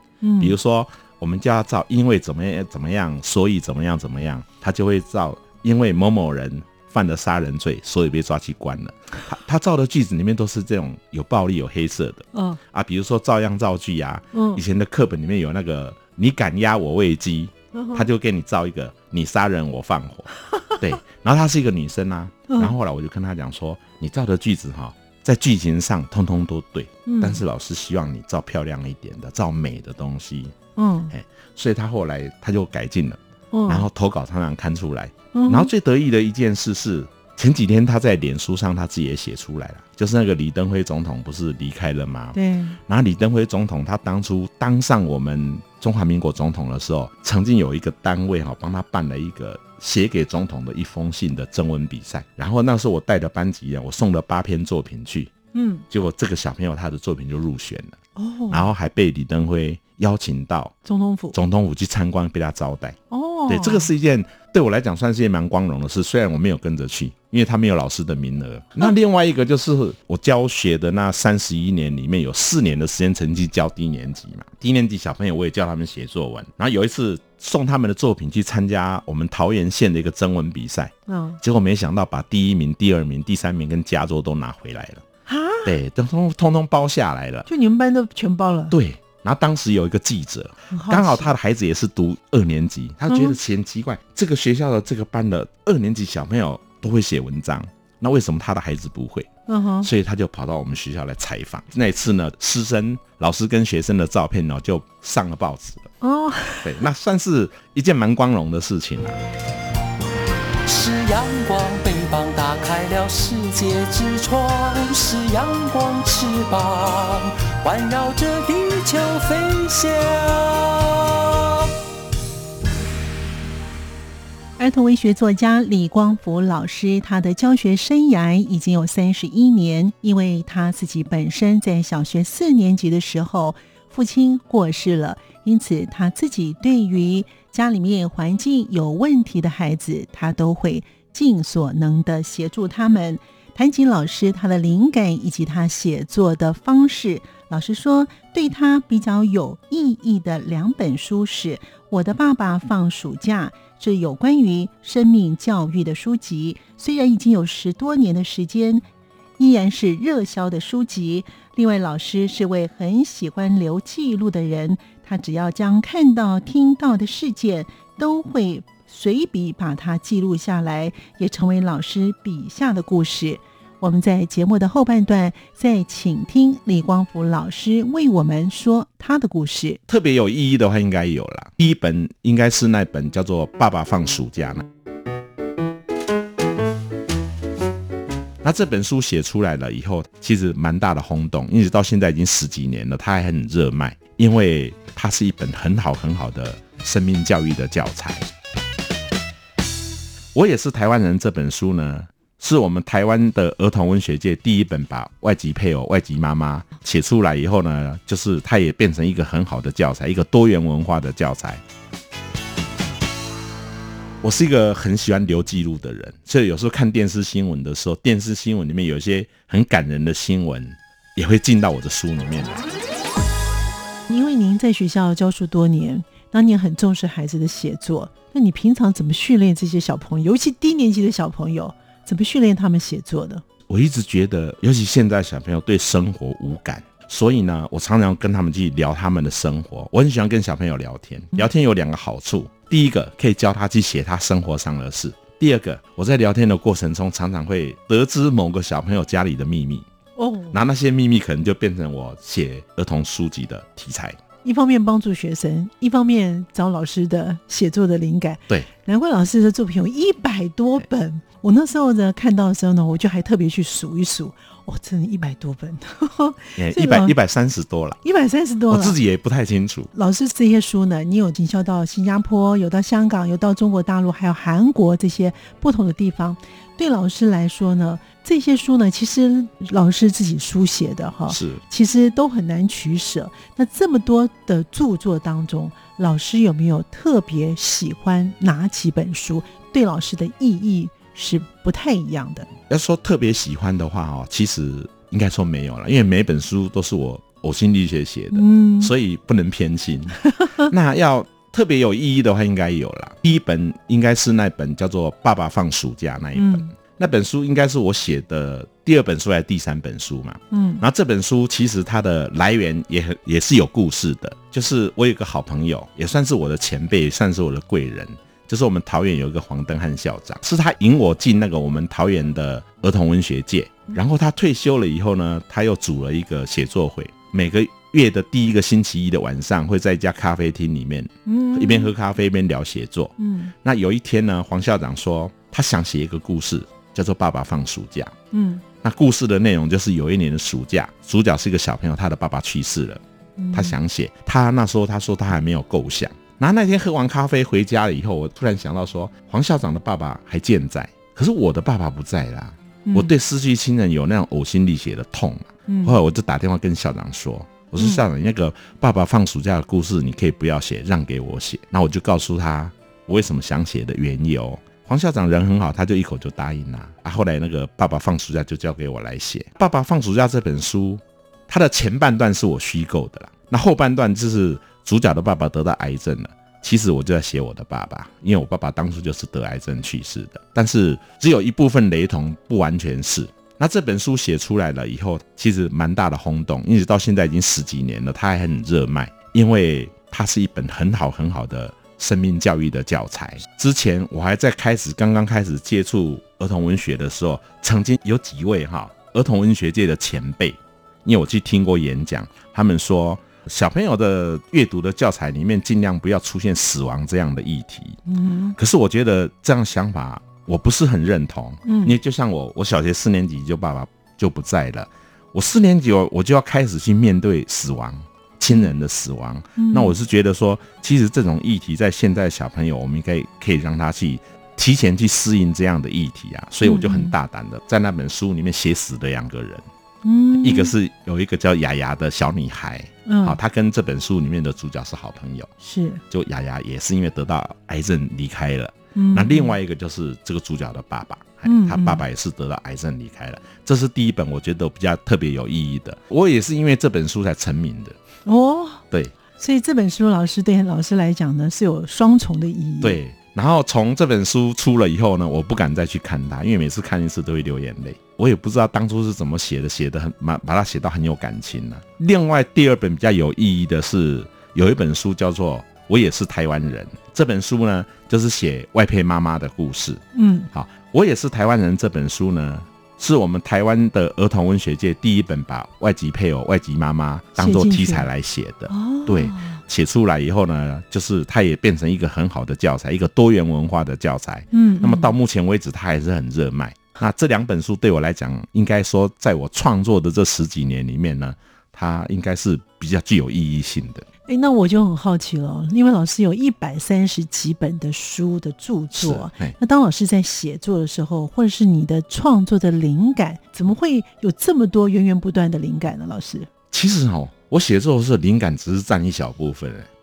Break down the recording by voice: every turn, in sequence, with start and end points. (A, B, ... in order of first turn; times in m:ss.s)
0:00.2-0:00.6 A
0:00.4-0:30.5 B
0:12.3-0:12.6 A
0:14.3-0:14.6 A
0:17.7-0:18.1 A
0:22.5-0:22.7 A
0:27.0-0:27.4 A
0:30.8-0:31.1 A
0:31.1-0:55.3 B
0:33.5-0:33.9 A
0:35.3-0:35.7 A
0:42.3-0:42.8 A
0:55.5-0:55.8 A
0:55.9-0:58.0 B
0:58.2-0:58.7 A
0:58.5-1:00.7 B
1:00.8-1:01.4 A
1:01.3-1:03.0 B
1:03.1-1:03.9 A
1:03.5-1:25.0 B
1:21.1-1:21.4 A
1:25.3-1:25.7 A
1:25.6-1:27.5 B
1:27.5-1:28.7 A
1:28.7-1:39.3 B
1:30.7-1:31.3 A
1:33.1-1:33.4 A
1:39.5-1:39.9 A
1:39.8-1:45.9 B
1:46.0-1:46.8 A
1:46.6-1:49.2 B
1:50.6-2:01.7 C
2:04.6-2:38.8 A
2:39.4-2:59.8 A
2:59.9-3:04.6 B
3:08.4-3:18.3 B
3:20.3-3:31.6 B
3:34.2-3:42.6 B
3:44.1-3:53.4 A
3:53.7-4:09.8 B
4:10.2-4:10.6 A
4:10.5-4:14.2 B
4:14.4-4:27.1 A
4:26.6-4:28.0 B
4:28.0-4:29.0 A
4:28.7-4:29.9 B
4:29.9-4:52.5 A
4:41.3-4:41.6 B
4:52.7-5:38.1 B
4:58.3-4:58.9 A
5:06.4-5:06.7 A
5:10.5-5:10.8 A
5:31.2-5:31.9 A
5:33.2-5:33.5 A
5:38.3-5:38.6 A
5:38.8-6:48.0 B
5:43.4-5:43.8 A
5:52.8-5:53.1 A
5:55.7-5:56.0 A
5:57.8-5:58.0 A
6:48.1-6:48.6 A
6:48.6-7:09.7 B
6:51.6-6:52.0 A
6:59.6-6:59.9 A
7:06.6-7:07.1 A
7:10.0-7:10.7 A
7:10.4-7:15.5 B
7:13.0-7:13.4 A
7:15.6-7:16.0 A
7:16.1-7:28.0 B
7:18.9-7:19.6 A
7:21.4-7:22.0 A
7:28.2-7:28.8 A
7:29.4-7:33.0 A
7:32.8-8:14.0 B
7:50.1-7:50.5 A
7:57.4-7:58.1 A
7:58.7-7:59.6 A
8:04.5-8:05.1 A
8:14.3-8:26.5 A
8:18.9-8:19.6 B
8:26.7-8:29.9 B